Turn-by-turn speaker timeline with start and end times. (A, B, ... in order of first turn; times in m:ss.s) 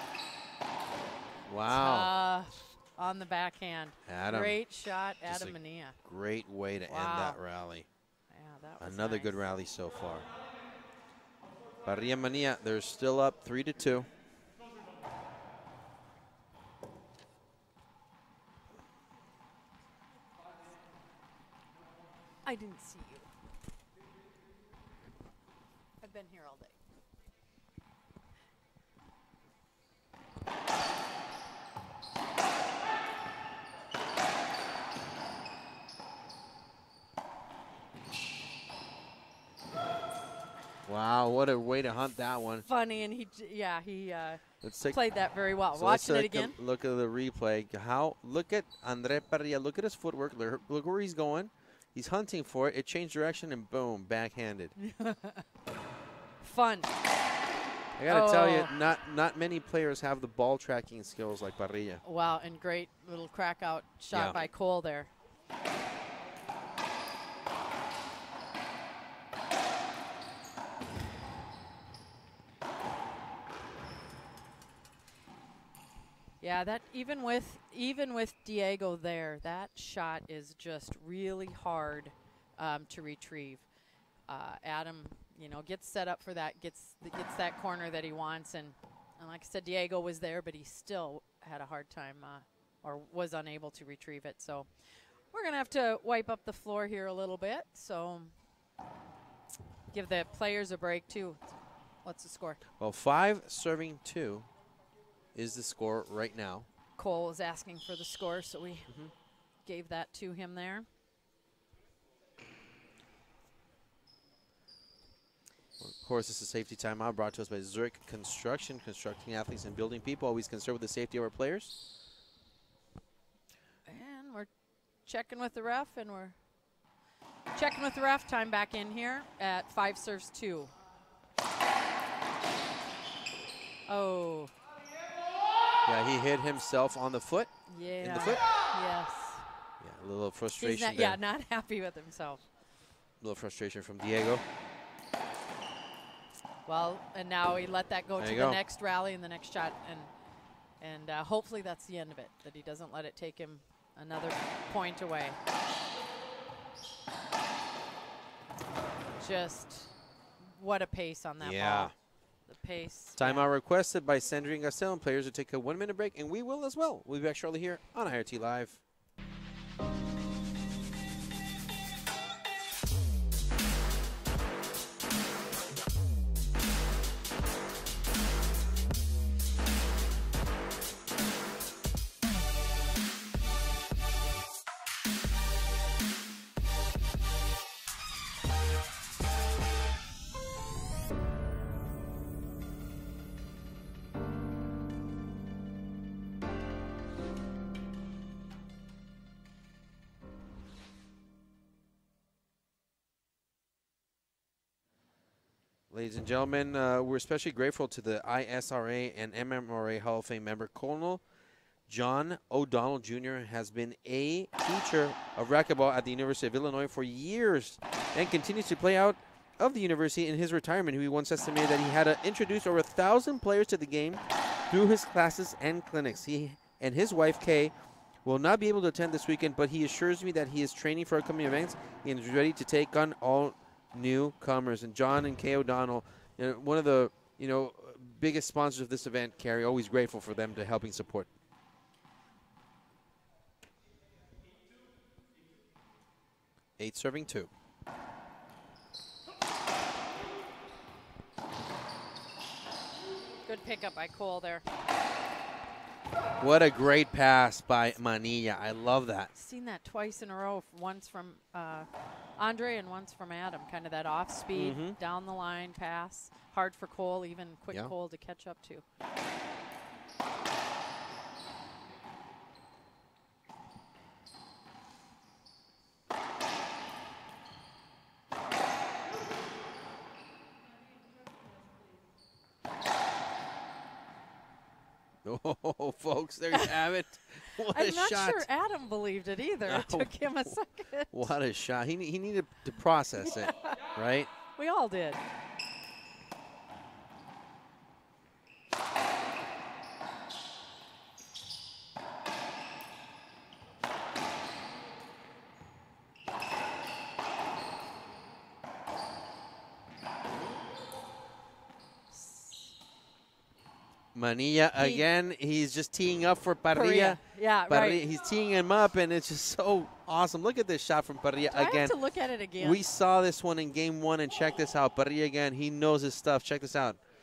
0:01.5-0:02.1 A
0:01.7-0:06.0 B
0:04.0-0:04.6 A
0:05.2-0:07.9 A
0:06.8-0:07.4 B
0:08.3-0:09.4 B
0:08.8-0:10.3 A
0:11.8-0:14.1 A
0:22.4-0:23.3 B
0:26.0-0:26.8 B
0:40.8-0:42.7 A
0:42.7-0:46.6 B
0:44.6-0:45.0 A
0:45.7-0:54.7 A
0:54.8-0:55.4 B
0:56.4-0:56.9 B
0:58.0-1:02.0 A
0:58.1-0:58.7 B
1:02.0-1:05.1 B
1:04.1-1:04.4 A
1:16.4-1:23.6 B
1:24.3-1:38.3 B
1:39.9-1:42.6 B
1:42.8-1:44.5 A
1:45.3-1:46.7 A
1:47.0-1:49.0 B
1:49.6-1:50.9 B
1:55.8-2:01.8 A
2:03.8-2:04.5 B
2:05.0-2:06.4 B
2:07.5-2:10.7 B
2:13.9-2:14.5 B
2:15.8-2:18.4 A
2:17.7-2:19.5 B
2:19.8-2:21.2 A
2:20.6-2:22.4 B
2:23.2-2:24.4 A
2:26.6-2:30.1 B
2:28.2-2:28.6 A
2:30.8-2:35.4 B
2:39.2-2:41.9 B
2:41.4-2:41.9 A
2:42.5-2:43.5 B
2:43.2-2:48.8 A
3:25.9-3:31.2 A
3:31.9-3:47.7 A
3:48.2-4:01.3 A
4:06.8-4:07.5 A
4:13.4-4:14.6 B
4:16.4-4:19.3 A
4:19.3-4:28.8 B
4:24.5-4:25.0 A
4:45.2-4:48.4 A
4:46.5-4:46.8 B
4:47.4-4:51.3 B
4:49.7-4:50.6 A
4:51.1-4:54.3 A
4:53.2-4:53.8 B
4:54.5-4:55.2 B
5:12.1-5:12.7 B
5:14.1-5:22.0 A
5:14.8-5:15.0 B
5:16.7-5:18.0 B
5:21.5-5:22.8 B
5:22.6-5:27.0 A